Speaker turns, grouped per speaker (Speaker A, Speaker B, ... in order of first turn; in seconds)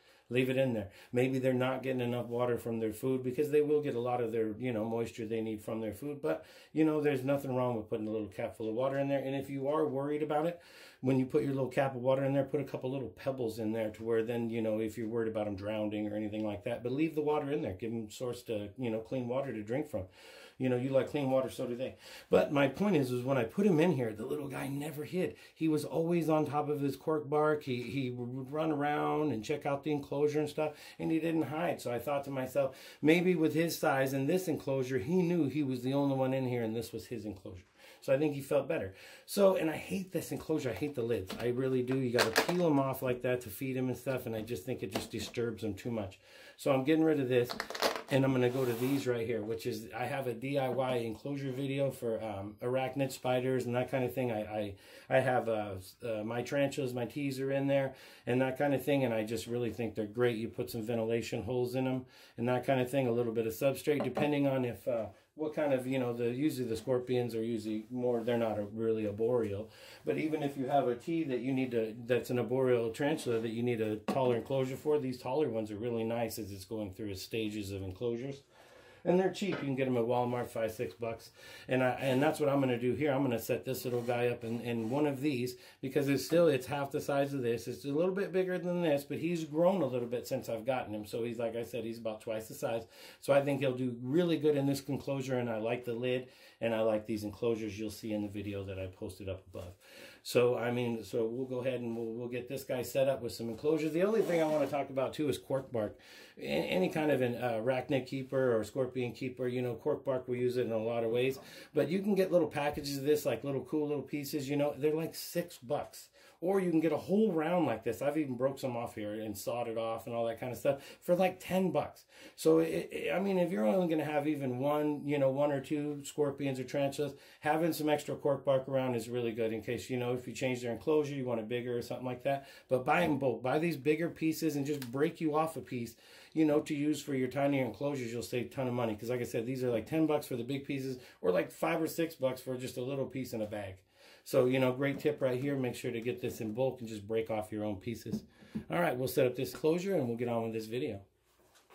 Speaker A: 0.3-78.4, 79.0-151.0